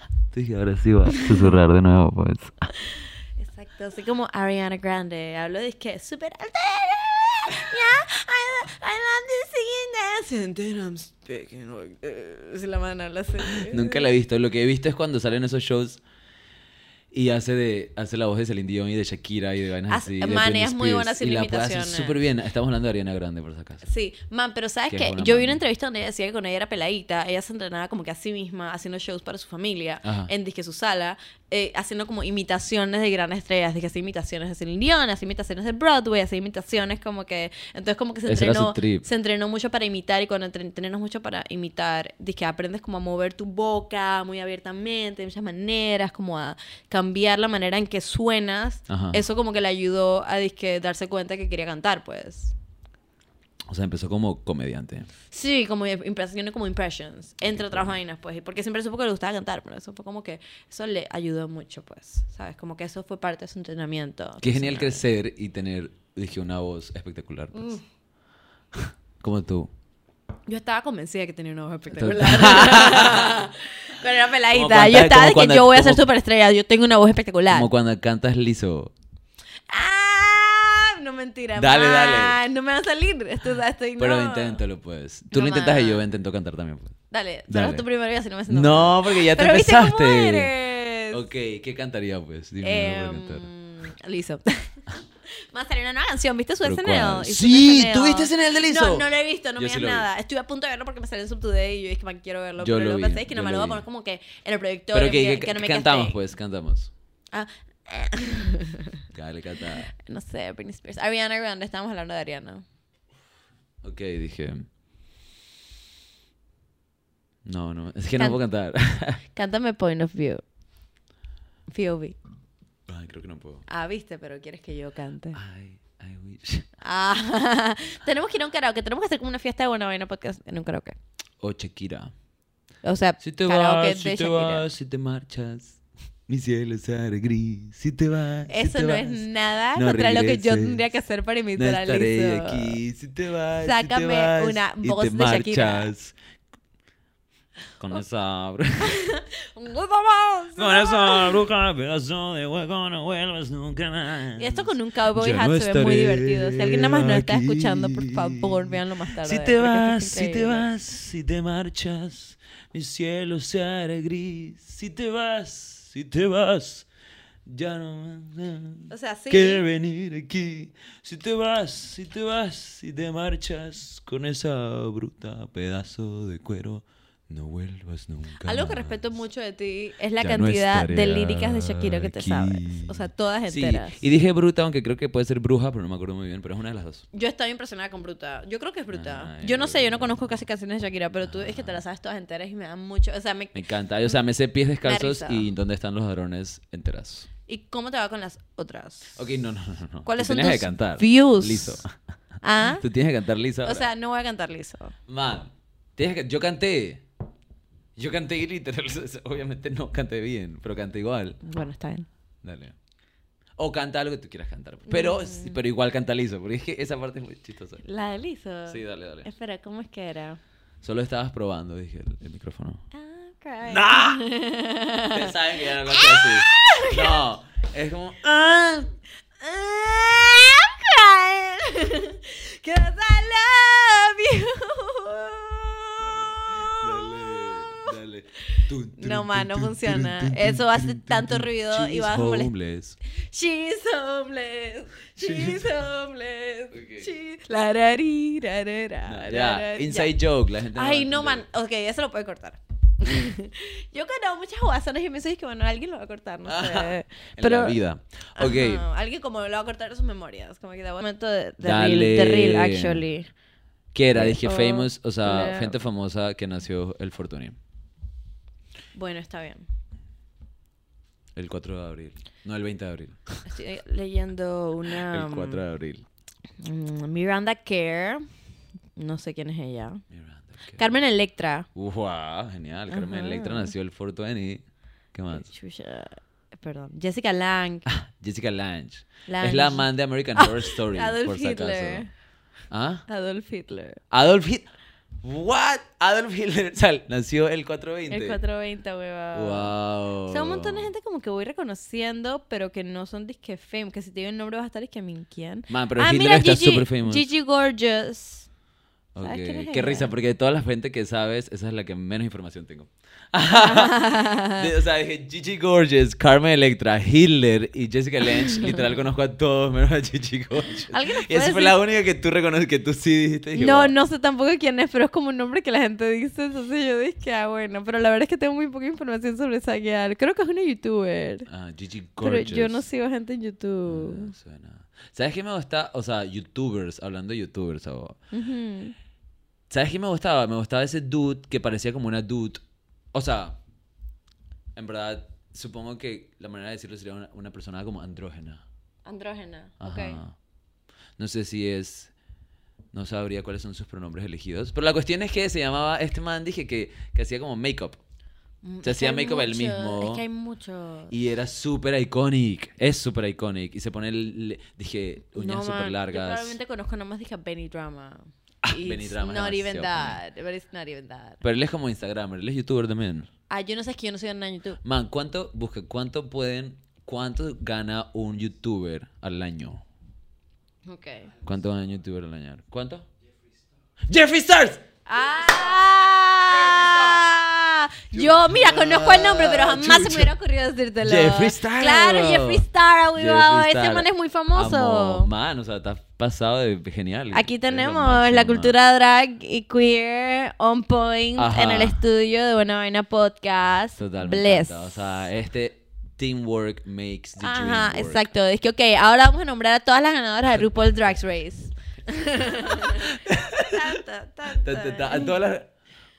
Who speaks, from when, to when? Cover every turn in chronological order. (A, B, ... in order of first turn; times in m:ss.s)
0:00.3-0:02.7 A
0:02.9-0:14.1 B
0:13.4-0:16.0 A
0:17.1-0:23.8 A
0:19.9-0:22.2 B
0:23.8-0:52.5 B
0:24.9-0:25.6 A
0:30.0-0:30.3 A
0:38.2-0:39.0 A
0:48.9-0:49.2 A
0:53.7-0:55.1 A
0:55.3-1:05.0 B
0:57.5-0:57.9 A
1:04.4-1:07.7 A
1:07.5-1:07.8 B
1:08.7-1:09.7 A
1:10.5-1:17.7 B
1:11.9-1:13.5 A
1:14.5-1:16.0 A
1:17.5-1:18.9 A
1:19.7-1:24.6 B
1:21.6-1:22.4 A
1:24.0-1:26.9 A
1:25.3-1:26.0 B
1:27.1-1:31.2 B
1:27.5-1:27.8 A
1:28.5-1:30.5 A
1:31.1-1:33.5 A
1:32.6-1:34.8 B
1:35.5-1:46.2 B
1:36.6-1:40.1 A
1:42.6-1:43.8 A
1:44.9-1:46.9 A
1:47.3-1:49.0 B
1:49.1-1:49.9 A
1:49.9-1:52.6 B
1:53.8-1:54.6 A
1:57.4-1:59.2 A
1:59.3-2:00.4 B
2:01.7-2:02.2 B
2:02.9-2:03.6 A
2:03.7-2:05.4 B
2:05.3-2:06.7 A
2:06.8-2:11.0 B
2:11.4-2:12.1 A
2:12.8-2:14.6 B
2:13.2-2:20.8 A
2:18.5-2:22.8 B
2:21.6-2:26.1 A
2:23.6-2:25.9 B
2:27.8-2:28.9 A
2:28.8-2:31.4 B
2:30.6-2:46.9 A
2:34.4-2:40.7 B
2:47.4-2:59.0 A
2:48.9-2:49.6 B
2:58.4-3:04.0 B
3:00.2-3:07.0 A
3:07.1-3:14.2 B
3:08.9-3:10.2 A
3:11.2-3:11.8 A
3:13.5-3:17.3 A
3:14.8-3:15.5 B
3:17.5-3:19.2 B
3:19.2-3:21.9 A
3:20.0-3:21.8 B
3:22.4-3:22.8 B
3:22.6-3:23.9 A
3:23.6-3:24.9 B
3:25.1-3:27.0 A
3:28.0-3:31.4 A
3:31.4-3:32.1 B
3:32.4-3:32.8 A
3:33.6-3:37.8 A
3:34.9-3:35.6 B
3:37.8-3:40.4 B
3:38.7-3:39.3 A
3:40.8-3:42.8 A
3:42.9-3:47.2 B
3:43.6-3:44.2 A
3:45.1-3:48.9 A
3:49.4-4:02.5 B
3:56.0-4:03.0 A
4:03.1-4:10.1 B
4:05.2-4:05.7 A
4:06.7-4:07.1 A
4:09.1-4:11.4 A
4:10.7-4:17.8 B
4:16.4-4:18.8 A
4:18.4-4:23.3 B
4:21.6-4:23.0 A
4:23.9-4:27.6 A
4:24.1-4:25.8 B
4:28.9-4:29.6 B
4:31.3-4:33.4 A
4:33.4-4:35.6 B
4:34.9-4:36.0 A
4:36.6-4:38.2 B
4:39.0-4:40.0 B
4:40.1-4:40.8 A
4:40.8-4:41.7 B
4:41.7-4:44.6 A
4:42.9-4:43.7 B
4:45.1-4:45.5 A
4:45.3-4:47.9 B
4:47.9-4:52.0 A
4:49.3-4:52.1 B
4:52.7-4:53.0 A
4:53.1-4:54.0 B
4:54.1-4:54.7 A
4:55.2-4:58.4 A
4:58.1-4:59.7 B
4:59.3-5:00.9 A
5:00.3-5:08.5 B
5:05.7-5:07.3 A
5:09.1-5:23.9 A
5:09.2-5:10.1 B
5:13.5-5:14.7 B
5:20.9-5:21.8 B
5:23.5-5:31.5 B
5:31.5-5:32.8 A
5:32.2-5:34.3 B
5:33.9-5:38.2 A
5:38.3-5:38.9 B
5:39.7-5:42.6 A
5:43.1-5:43.6 A
5:44.8-5:48.6 A
5:49.0-5:50.2 B
5:49.8-5:50.3 A
5:51.2-5:52.1 A
5:52.9-5:58.0 A
5:58.6-6:01.1 B
5:58.8-6:00.2 A
6:01.1-6:06.6 A
6:05.3-6:11.4 B
6:08.6-6:10.2 A
6:11.4-6:13.3 A
6:13.5-6:14.8 B
6:14.8-6:19.8 A
6:20.8-6:21.3 B
6:21.4-6:23.1 A
6:24.1-6:24.8 A
6:25.0-6:35.3 B
6:28.1-6:30.3 A
6:31.0-6:38.7 A
6:37.3-6:45.0 B
6:41.4-6:42.0 A
6:44.0-6:48.2 A
6:47.4-6:55.4 B
6:52.7-6:55.7 A